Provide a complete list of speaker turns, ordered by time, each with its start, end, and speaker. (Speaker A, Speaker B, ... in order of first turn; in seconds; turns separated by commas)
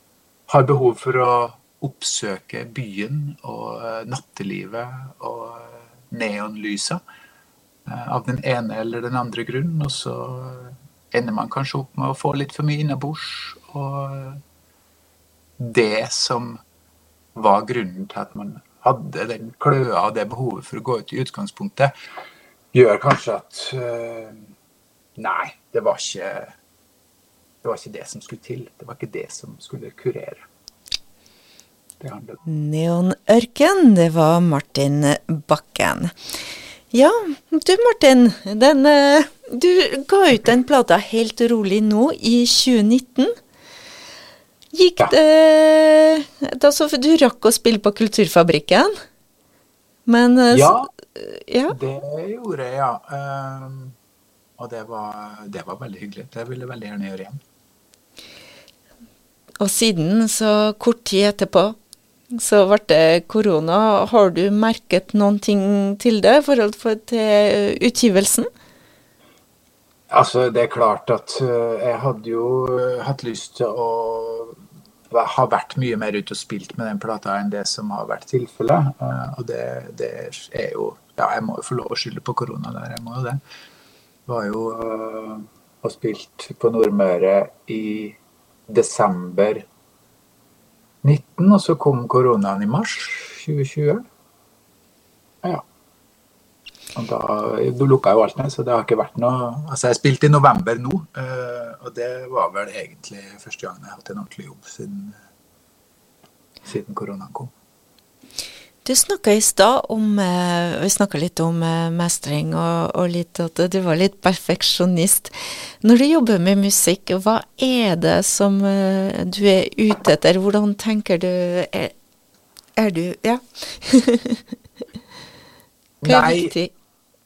Speaker A: 0.5-7.0, Speaker A: 7.8-14.4, Speaker A: 15.6-16.6, Speaker A: 17.3-21.9, Speaker A: 22.7-24.5, Speaker A: 25.2-26.5, Speaker A: 27.6-30.5, Speaker A: 32.0-32.4, Speaker B: 32.5-36.1, Speaker B: 36.9-43.3, Speaker B: 44.7-48.9, Speaker B: 50.0-51.8, Speaker A: 50.5-50.9, Speaker A: 51.7-54.0, Speaker A: 54.6-57.4, Speaker B: 59.6-61.7, Speaker B: 62.3-68.5, Speaker A: 70.1-74.5, Speaker A: 75.1-83.4, Speaker A: 84.2-88.2, Speaker A: 88.7-89.7, Speaker A: 91.0-94.0, Speaker A: 96.9-105.2, Speaker A: 106.6-107.5, Speaker B: 108.8-121.9, Speaker B: 122.8-124.4, Speaker A: 126.0-126.5, Speaker B: 126.0-126.7